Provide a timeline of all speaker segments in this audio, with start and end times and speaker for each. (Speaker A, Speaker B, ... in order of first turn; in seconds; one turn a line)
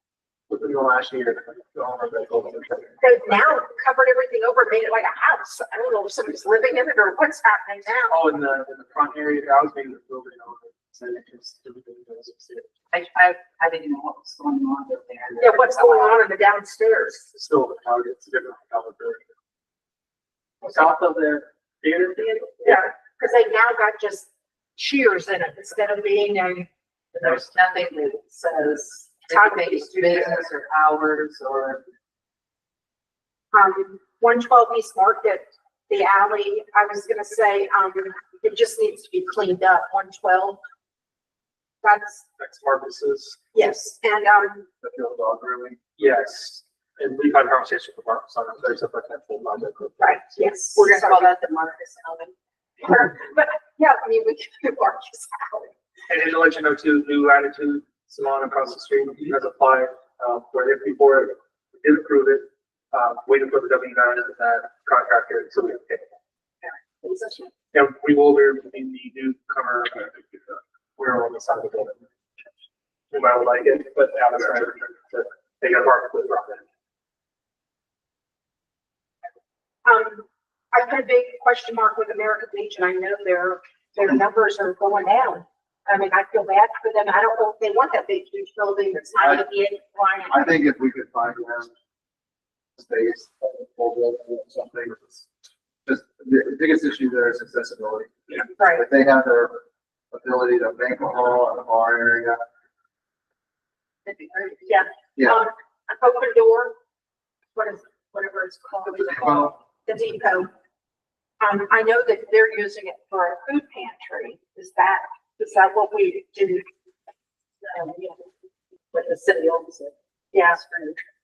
Speaker A: 0.5-2.9
Speaker B: 3.0-8.2
Speaker A: 8.1-12.7
Speaker C: 12.9-16.2
Speaker B: 15.4-17.3
Speaker A: 17.3-19.2
Speaker C: 20.6-21.4
Speaker A: 20.6-22.8
Speaker C: 22.1-22.5
Speaker B: 22.6-26.7
Speaker C: 27.1-31.8
Speaker B: 29.3-30.4
Speaker B: 33.5-40.6
Speaker B: 41.8-42.2
Speaker A: 42.4-43.4
Speaker B: 43.5-44.7
Speaker D: 44.8-45.8
Speaker A: 46.0-50.0
Speaker B: 50.0-51.3
Speaker C: 50.6-52.3
Speaker B: 52.8-55.7
Speaker A: 56.1-66.1
Speaker B: 66.6-67.5
Speaker A: 67.7-72.0
Speaker A: 73.1-76.6
Speaker B: 79.8-90.6
Speaker D: 89.2-89.5
Speaker D: 90.3-91.7
Speaker D: 92.8-95.2
Speaker D: 95.8-102.4
Speaker B: 98.6-98.9
Speaker C: 104.0-104.8
Speaker B: 104.6-106.8
Speaker D: 105.2-105.4
Speaker B: 107.5-110.5
Speaker D: 109.2-109.5
Speaker B: 111.4-116.6
Speaker B: 117.7-118.2
Speaker C: 118.9-119.9
Speaker B: 120.3-121.0